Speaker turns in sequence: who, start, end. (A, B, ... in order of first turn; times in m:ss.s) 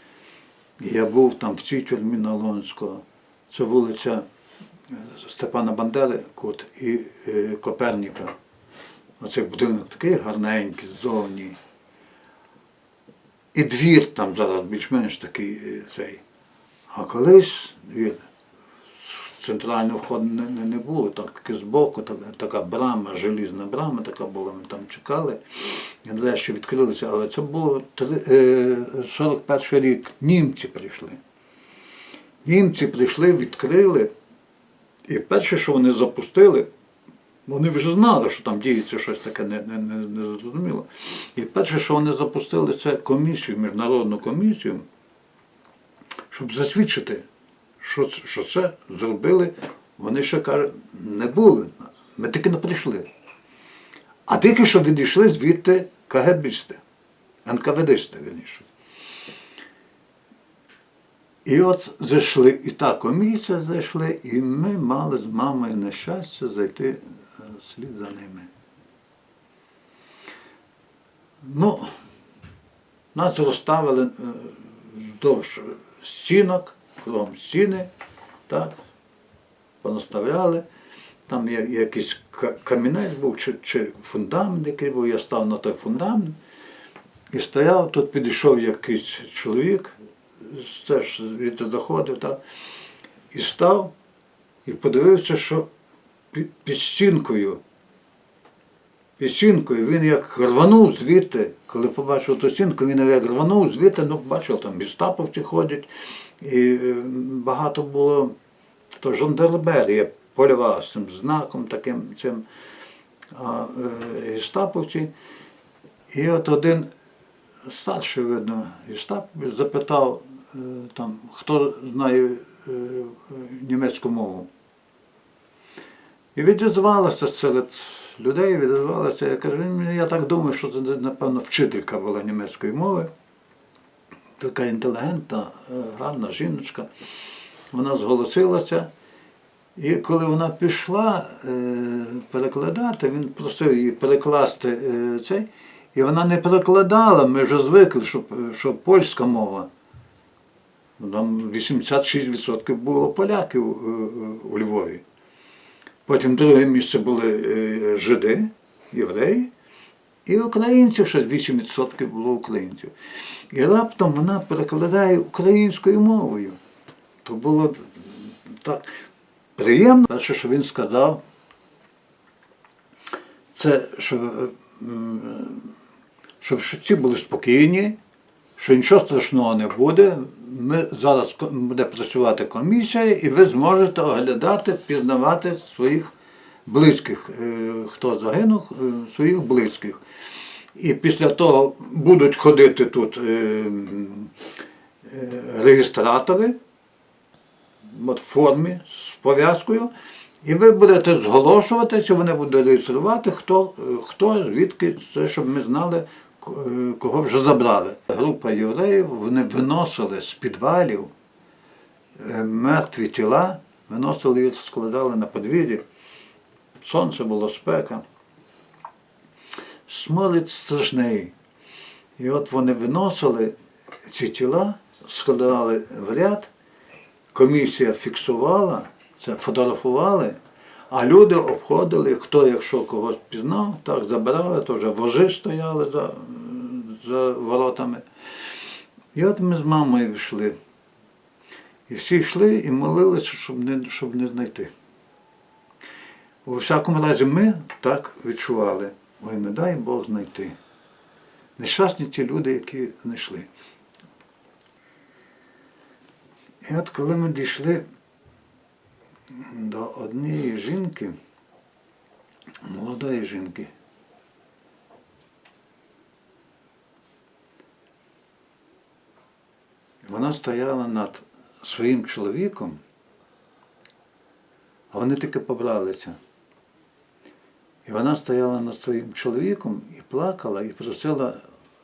0:00.8-0:04.3 A
0:04.9-0:08.4 A
0:09.2-0:11.6 A
0:13.5-0:16.2 A
0:16.9-0:18.3 A
0:19.0-0:31.2 A
0:32.4-0:34.1 A
0:35.1-0:36.7 A
0:37.5-0:44.9 A
0:46.3-0:47.3 A
0:47.8-0:53.1 A
0:54.3-0:56.8 A
0:57.4-0:58.7 A
1:01.4-1:08.5 A
1:11.4-1:11.9 A
1:13.1-1:17.9 A
1:18.5-1:18.8 A
1:19.8-1:20.7 A
1:21.3-1:26.4 A
1:27.3-1:32.4 A
1:33.3-1:33.9 A
1:34.6-1:35.7 A
1:36.3-1:37.6 A
1:39.2-1:48.4 A
1:49.0-1:52.5 A
1:53.3-1:55.1 A
1:56.1-1:56.9 A
1:57.6-2:04.5 A
2:06.4-2:13.1 A
2:14.4-2:16.9 A
2:17.7-2:18.9 A
2:19.8-2:29.7 A
2:31.0-2:35.0 A
2:36.1-2:39.5 A
2:40.3-2:42.9 A
2:43.5-2:46.6 A
2:47.2-2:48.9 A
2:49.6-2:51.2 A
2:53.5-2:55.7 A
2:56.4-2:58.0 A
2:58.6-3:06.1 A
3:06.7-3:10.0 A
3:10.7-3:14.3 A
3:15.0-3:16.6 A
3:17.8-3:19.9 A
3:20.4-3:31.1 A
3:32.2-3:35.8 A
3:36.8-3:38.0 A
3:39.9-3:41.3 A
3:42.2-3:46.5 A
3:47.3-3:50.4 A
3:50.9-3:58.0 A
3:59.1-4:00.6 A
4:01.9-4:04.7 A
4:06.4-4:10.6 A
4:11.6-4:13.5 A
4:16.6-4:17.8 A
4:19.3-4:21.2 A
4:22.6-4:23.7 A
4:30.0-4:32.8 A
4:34.9-4:36.2 A
4:37.8-4:41.4 A